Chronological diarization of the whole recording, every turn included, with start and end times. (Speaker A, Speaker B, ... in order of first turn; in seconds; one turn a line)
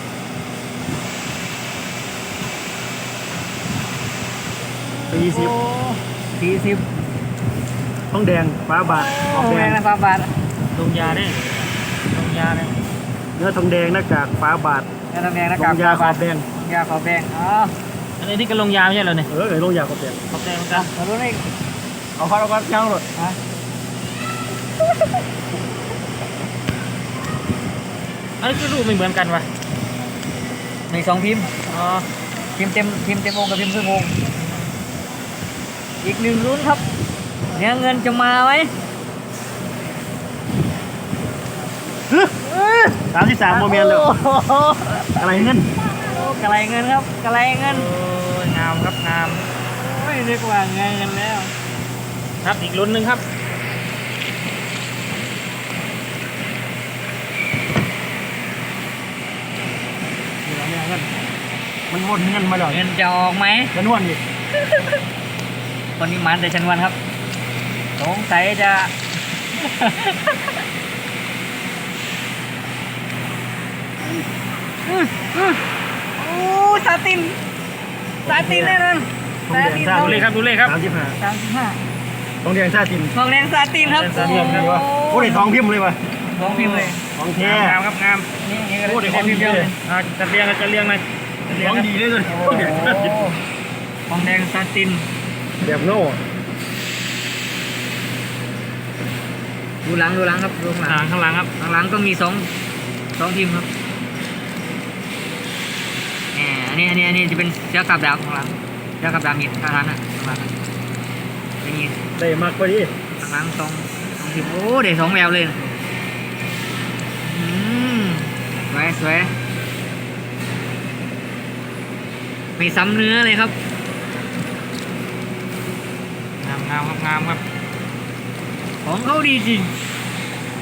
Speaker A: 5.1-5.6
Speaker B: 5.1-6.9
Speaker A: 8.1-9.8
Speaker B: 8.8-10.3
Speaker C: 10.7-11.4
Speaker A: 11.0-11.7
Speaker C: 12.1-12.7
Speaker A: 13.4-14.9
Speaker B: 15.1-17.7
Speaker A: 15.6-16.5
Speaker C: 18.2-19.3
Speaker A: 19.3-20.2
Speaker C: 20.3-20.9
Speaker B: 20.7-21.5
Speaker A: 22.2-23.0
Speaker C: 28.4-29.5
Speaker B: 30.9-31.6
Speaker C: 31.7-32.1
Speaker B: 32.5-34.2
Speaker B: 36.0-36.9
Speaker B: 37.5-38.7
Speaker B: 42.5-43.0
Speaker A: 43.0-44.1
Speaker B: 43.5-45.2
Speaker A: 45.1-45.7
Speaker B: 45.8-47.9
Speaker C: 47.6-49.4
Speaker B: 49.7-51.5
Speaker C: 52.4-53.2
Speaker A: 60.4-61.1
Speaker A: 61.9-62.8
Speaker B: 62.7-63.7
Speaker A: 63.7-64.2
Speaker B: 66.0-67.0
Speaker B: 68.0-68.9
Speaker B: 69.5-70.5
Speaker B: 74.9-75.6
Speaker B: 76.2-77.4
Speaker B: 78.2-80.3
Speaker A: 78.3-78.8
Speaker A: 79.5-81.2
Speaker C: 79.9-80.8
Speaker B: 81.1-81.8
Speaker A: 82.4-83.1
Speaker B: 83.1-85.5
Speaker C: 83.8-84.8
Speaker A: 84.2-86.0
Speaker B: 86.3-87.0
Speaker C: 86.4-88.3
Speaker A: 87.2-87.8
Speaker B: 88.4-89.8
Speaker A: 88.8-89.7
Speaker C: 89.8-91.9
Speaker A: 91.5-93.3
Speaker B: 92.3-93.4
Speaker B: 94.1-95.0
Speaker A: 95.6-96.2
Speaker B: 99.8-102.5
Speaker C: 100.9-101.5
Speaker B: 103.1-103.7
Speaker B: 106.3-110.6
Speaker B: 111.6-112.0
Speaker A: 112.2-112.9
Speaker B: 113.2-115.7
Speaker B: 117.2-119.3
Speaker B: 122.6-123.5
Speaker C: 126.4-127.4
Speaker B: 128.8-129.7